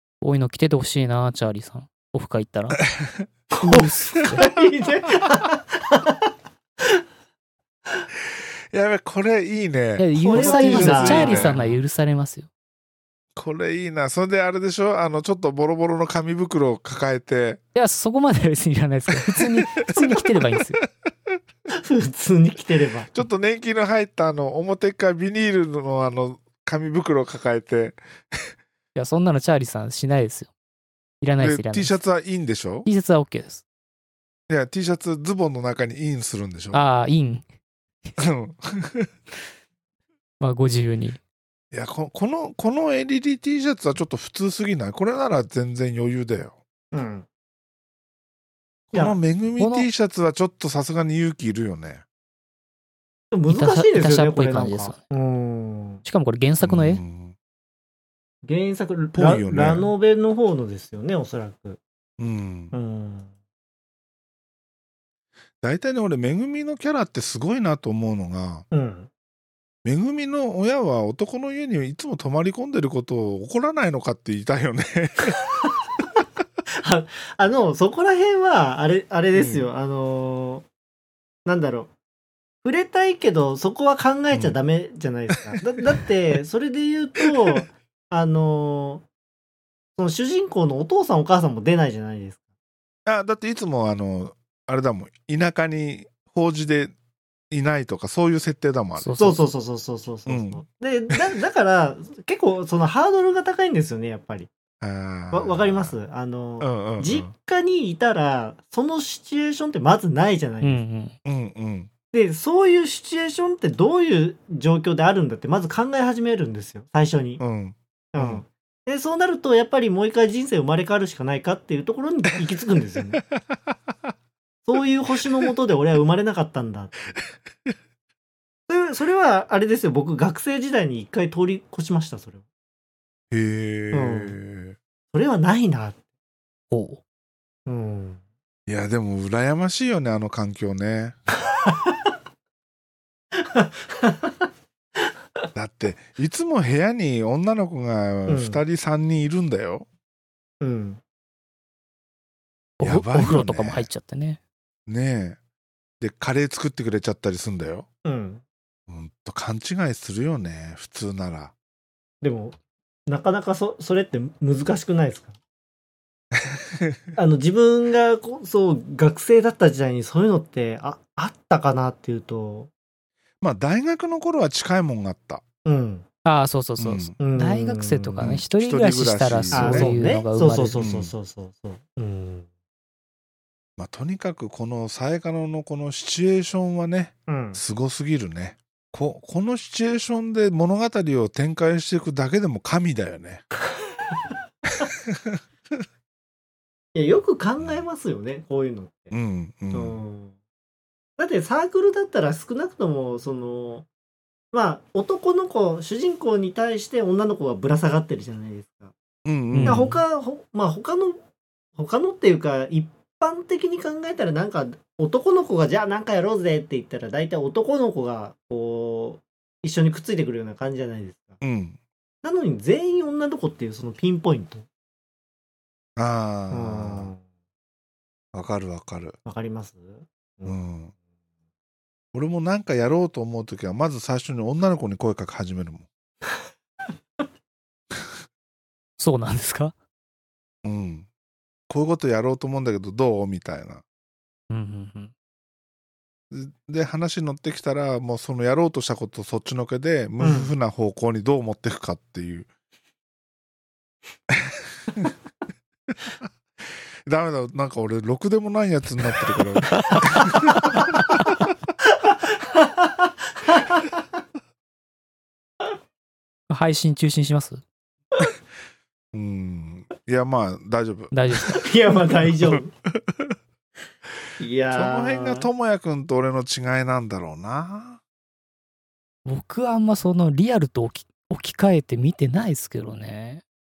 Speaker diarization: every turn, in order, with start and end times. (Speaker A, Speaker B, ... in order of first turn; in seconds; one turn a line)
Speaker A: 0.2-2.8
Speaker B: 2.9-3.3
Speaker C: 3.5-6.3
Speaker A: 3.6-4.4
Speaker B: 8.7-11.8
Speaker A: 10.0-12.5
Speaker C: 10.2-11.6
Speaker B: 13.3-17.6
Speaker A: 17.7-20.8
Speaker B: 19.2-20.6
Speaker C: 21.7-23.1
Speaker B: 23.1-28.5
Speaker A: 28.9-30.5
Speaker A: 31.2-31.9
Speaker B: 31.4-32.9
Speaker A: 32.8-33.6
Speaker B: 34.5-36.8
Speaker A: 36.7-37.4
Speaker B: 38.2-39.1
Speaker A: 40.4-41.2
Speaker B: 41.7-46.5
Speaker C: 46.9-47.2
Speaker B: 48.9-52.0
Speaker A: 49.6-49.9
Speaker C: 53.3-56.0
Speaker A: 53.5-55.0
Speaker A: 56.0-57.0
Speaker B: 56.6-57.3
Speaker C: 58.4-61.8
Speaker B: 59.1-59.9
Speaker B: 62.2-62.7
Speaker C: 62.7-63.3
Speaker B: 65.6-68.7
Speaker C: 68.7-69.1
Speaker B: 69.8-75.4
Speaker C: 76.8-80.6
Speaker B: 79.3-79.6
Speaker C: 81.5-81.9
Speaker C: 82.6-89.0
Speaker B: 85.5-86.0
Speaker C: 90.0-92.4
Speaker B: 93.0-96.9
Speaker B: 97.5-99.1
Speaker A: 99.0-99.4
Speaker C: 99.2-104.5
Speaker B: 100.2-100.6
Speaker B: 104.8-106.0
Speaker C: 105.3-110.8
Speaker B: 106.6-107.3
Speaker A: 110.6-111.1
Speaker B: 111.2-111.9
Speaker C: 112.1-117.4
Speaker B: 117.4-118.4
Speaker C: 118.1-123.2
Speaker C: 124.7-127.1
Speaker C: 128.7-132.4
Speaker B: 133.3-134.8
Speaker C: 133.9-134.3
Speaker C: 135.1-136.0
Speaker A: 136.7-137.0
Speaker C: 137.7-138.2
Speaker B: 138.7-141.2
Speaker C: 143.3-144.3
Speaker B: 145.5-149.8
Speaker C: 148.3-148.6
Speaker C: 150.6-151.0
Speaker A: 152.8-154.4
Speaker B: 152.8-153.9
Speaker B: 154.9-155.4
Speaker B: 156.0-157.8
Speaker C: 158.0-158.4
Speaker B: 158.9-161.5
Speaker C: 162.2-165.4
Speaker B: 166.4-167.0
Speaker C: 167.2-172.7
Speaker B: 173.4-175.4
Speaker C: 175.6-176.1
Speaker A: 176.2-180.8
Speaker B: 176.8-177.2
Speaker C: 177.2-178.3
Speaker B: 178.2-180.0
Speaker C: 179.5-182.5
Speaker B: 180.8-181.1
Speaker B: 183.8-193.4
Speaker C: 187.3-187.6
Speaker B: 194.8-195.4
Speaker C: 196.9-199.1
Speaker B: 199.1-200.0
Speaker C: 199.7-200.3
Speaker C: 201.2-203.8
Speaker C: 204.5-208.9
Speaker B: 209.2-209.9
Speaker A: 209.5-210.0
Speaker C: 209.6-211.2
Speaker C: 211.8-221.4
Speaker B: 221.4-221.8
Speaker C: 222.2-224.7
Speaker B: 225.9-227.1
Speaker C: 226.5-227.2
Speaker B: 228.3-229.2
Speaker C: 229.2-230.6
Speaker B: 230.4-230.9
Speaker B: 232.1-235.9
Speaker A: 239.0-239.7
Speaker B: 240.6-241.1
Speaker B: 241.7-243.8
Speaker A: 244.5-245.1
Speaker B: 246.3-252.5
Speaker C: 250.2-250.5
Speaker B: 254.3-255.1
Speaker B: 255.9-260.9
Speaker A: 259.7-260.2
Speaker C: 262.0-264.0
Speaker A: 266.5-267.6
Speaker B: 269.1-271.5
Speaker A: 271.1-271.6
Speaker C: 271.5-272.7
Speaker B: 272.2-273.4
Speaker C: 274.4-275.5
Speaker B: 274.7-278.0
Speaker A: 279.2-283.4